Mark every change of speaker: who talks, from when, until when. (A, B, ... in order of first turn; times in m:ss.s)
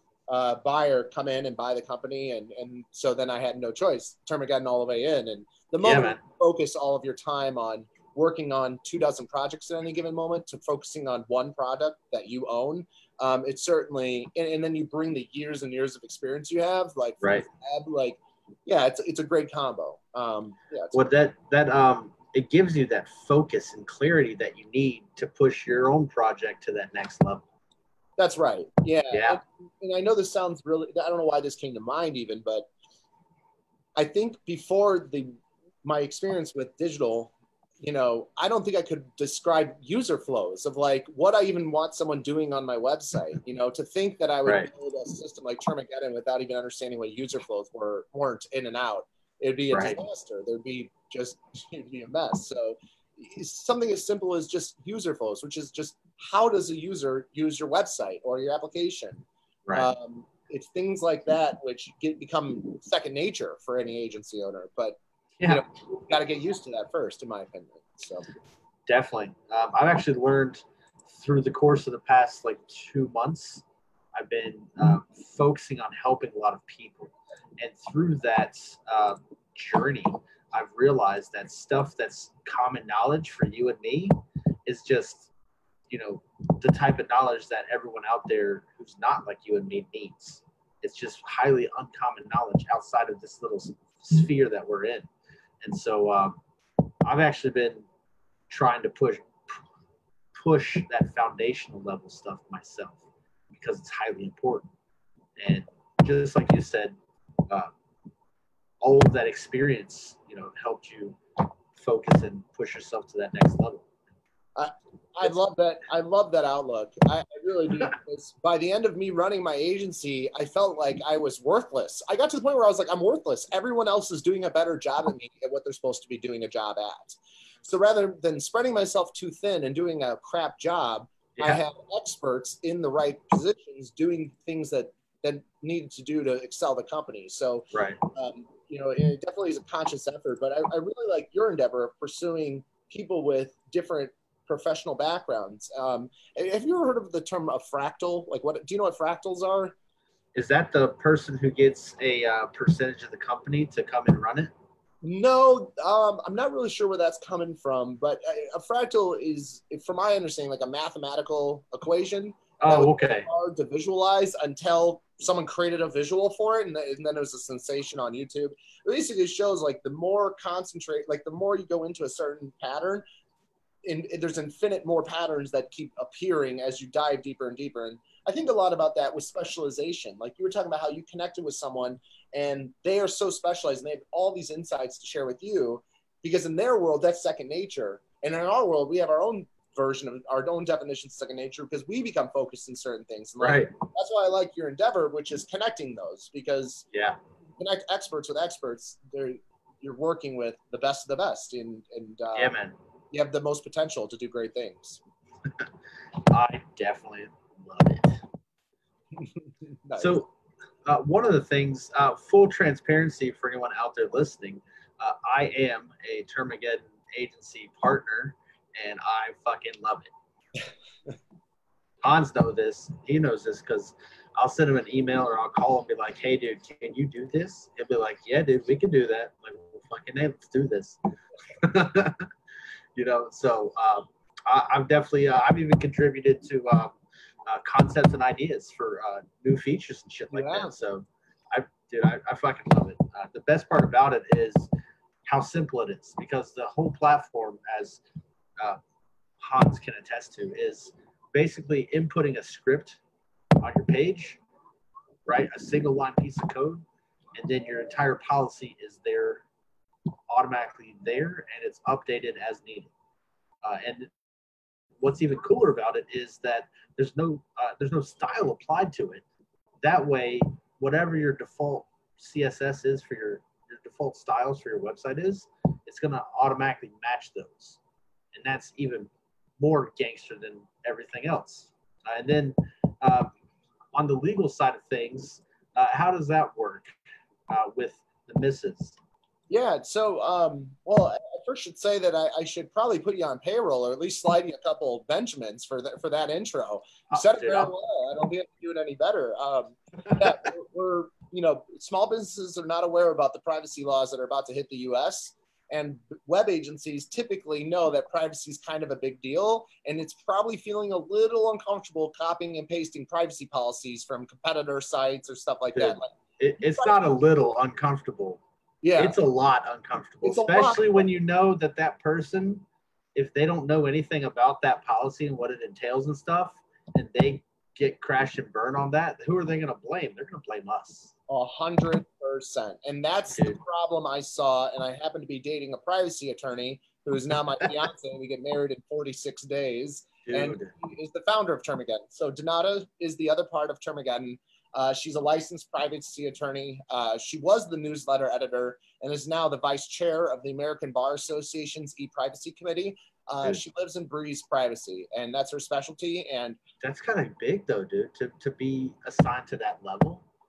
0:00.3-0:21.1 A
0:05.8-0:06.2 B
0:20.9-0:27.4 B
0:28.2-0:32.7 A
0:29.1-0:29.4 B
0:34.0-0:35.3 A
0:35.8-1:08.3 A
0:49.7-0:50.0 B
1:05.4-1:05.6 B
1:08.9-1:25.3 B
1:25.9-1:35.1 B
1:35.6-1:36.4 B
1:37.0-1:37.8 B
1:38.5-1:39.6 B
1:40.3-1:43.0 B
1:43.5-1:44.7 B
1:45.4-1:47.0 B
1:48.8-1:51.2 B
1:51.7-1:53.9 B
1:54.6-2:29.7 A
2:11.4-2:11.6 B
2:17.7-2:18.0 B
2:30.3-2:34.5 B
2:35.0-2:53.0 A
2:42.6-2:43.3 B
2:53.8-3:16.8 A
3:13.4-3:13.8 B
3:16.9-3:17.2 B
3:17.6-3:22.5 A
3:22.3-3:22.8 B
3:23.1-3:25.0 A
3:26.3-3:28.2 B
3:29.2-3:30.2 A
3:30.0-3:30.3 B
3:30.8-3:40.1 B
3:42.0-3:51.0 B
3:51.5-3:52.3 B
3:53.0-3:57.0 B
3:57.5-4:04.7 B
4:00.3-4:00.7 A
4:05.2-4:08.0 B
4:09.4-4:13.0 B
4:13.6-4:14.4 B
4:15.2-4:16.8 B
4:17.4-4:19.4 B
4:20.3-4:22.9 B
4:23.6-4:24.1 B
4:25.0-4:29.2 B
4:29.8-4:37.8 B
4:38.3-4:43.3 B
4:43.9-4:47.0 B
4:47.5-4:49.0 B
4:49.5-5:16.1 A
4:57.1-4:57.7 B
5:15.7-5:18.4 B
5:18.8-5:19.2 A
5:19.0-5:31.1 B
5:20.2-5:21.0 A
5:31.3-5:56.6 A
5:33.3-5:33.6 B
5:40.2-5:40.7 B
5:56.8-6:00.2 B